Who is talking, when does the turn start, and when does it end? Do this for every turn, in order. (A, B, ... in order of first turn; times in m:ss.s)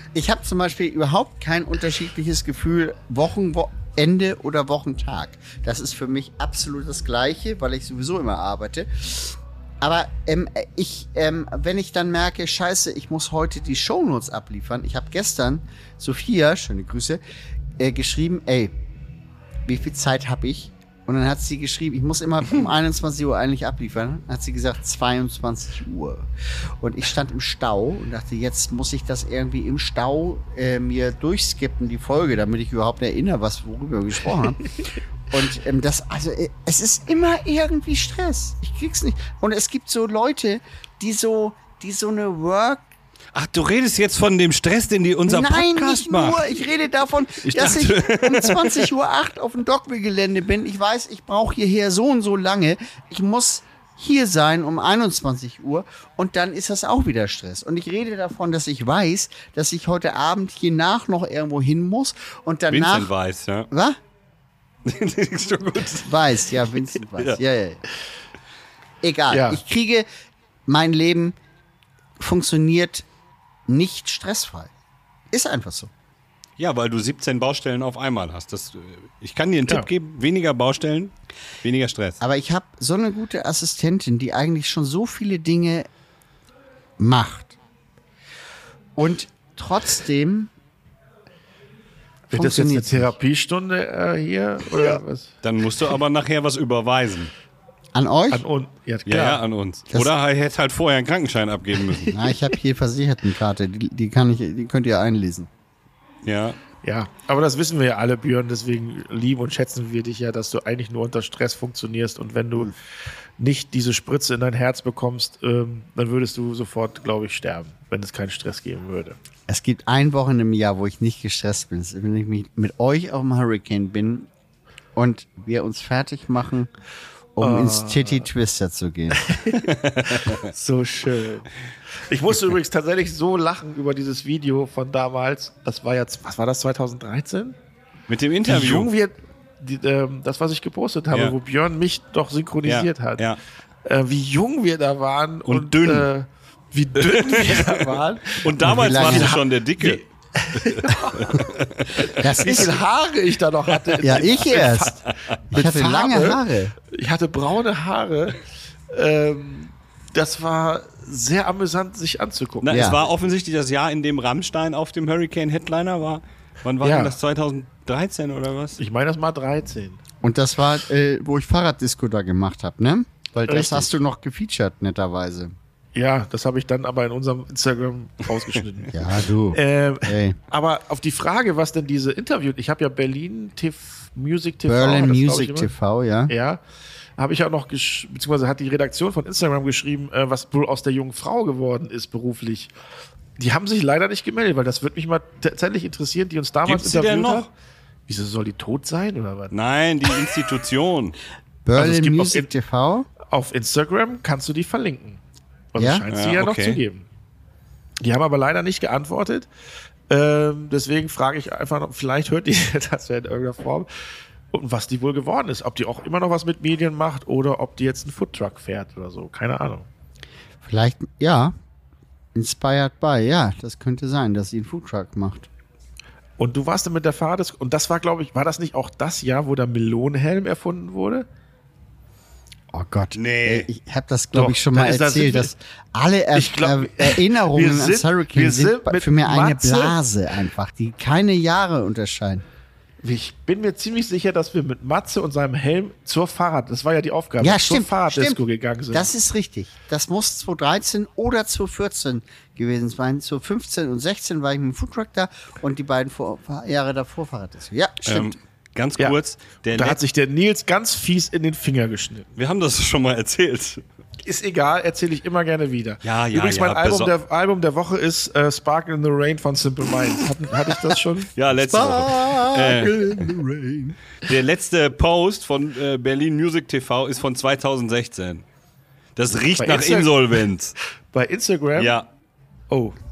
0:00.1-0:17.2 A
0:17.8-0:18.7 A
0:19.6-0:34.8 A
0:35.3-0:42.8 A
0:43.3-0:46.5 B
0:45.2-1:03.1 A
0:47.4-0:48.8 B
1:02.7-1:03.7 B
1:03.7-1:04.0 A
1:04.8-1:06.1 B
1:06.0-1:07.8 A
1:09.0-1:10.0 A
1:09.3-1:09.6 C
1:10.7-1:11.4 A
1:12.2-1:13.0 A
1:13.7-1:14.7 A
1:15.3-1:15.9 A
1:16.6-1:21.1 B
1:21.6-1:22.2 B
1:22.2-1:25.9 A
1:27.0-1:27.5 A
1:29.0-1:30.5 A
1:32.3-1:35.3 C
1:32.3-1:33.1 A
1:35.4-1:37.3 B
1:37.9-1:38.4 A
1:38.3-1:39.4 C
1:39.1-1:42.1 B
1:42.1-1:45.5 A
1:46.2-1:46.6 B
1:46.8-1:52.7 C
1:53.4-1:59.2 C
1:59.5-2:04.3 A
2:04.9-2:06.7 A
2:07.4-2:09.3 A
2:07.4-2:08.3 C
2:09.2-2:09.7 C
2:09.7-2:10.4 B
2:10.2-2:17.6 C
2:18.1-2:18.9 B
2:18.5-2:23.2 C
2:22.6-2:23.4 B
2:23.8-2:31.5 C
2:25.5-2:26.1 B
2:27.0-2:27.8 B
2:28.3-2:30.0 B
2:28.6-2:29.4 A
2:30.6-2:32.6 B
2:32.1-2:42.9 C
2:32.2-2:32.8 A
2:34.0-2:35.1 B
2:34.0-2:35.0 A
2:35.5-2:36.7 A
2:42.6-2:48.8 B
2:42.7-2:43.0 A
2:46.8-2:47.2 C
2:48.8-2:50.0 C
2:50.2-2:55.5 A
2:53.4-2:53.9 C
2:55.9-2:59.0 C
2:58.9-3:00.4 A
2:59.5-3:05.7 C
3:04.7-3:06.3 A
3:06.3-3:06.6 C
3:07.2-3:12.7 C
3:13.4-3:17.5 C
3:16.6-3:17.5 B
3:18.1-3:19.5 C
3:19.5-3:21.2 B
3:21.6-3:23.1 A
3:21.8-3:22.5 C
3:23.2-3:25.2 C
3:25.7-3:27.1 C
3:25.8-3:26.0 A
3:26.1-3:26.8 B
3:28.0-3:29.5 C
3:30.1-3:39.9 C
3:40.6-3:41.5 A
3:42.3-3:45.5 A
3:46.4-3:51.3 C
3:52.7-4:02.4 A
3:53.1-3:53.7 B
3:54.3-3:55.5 C
3:56.3-4:00.0 C
4:03.0-4:09.1 C
4:07.4-4:08.4 A
4:08.9-4:18.4 A
4:18.0-4:20.0 B
4:19.7-4:22.3 C
4:22.4-4:23.8 B
4:24.2-4:31.3 C
4:26.0-4:27.1 B
4:31.4-4:33.3 B
4:31.7-4:34.0 A
4:34.2-4:38.4 B
4:39.2-4:40.7 B
4:39.5-4:40.4 C
4:41.1-4:42.0 C
4:41.8-4:42.0 B
4:42.7-4:42.9 C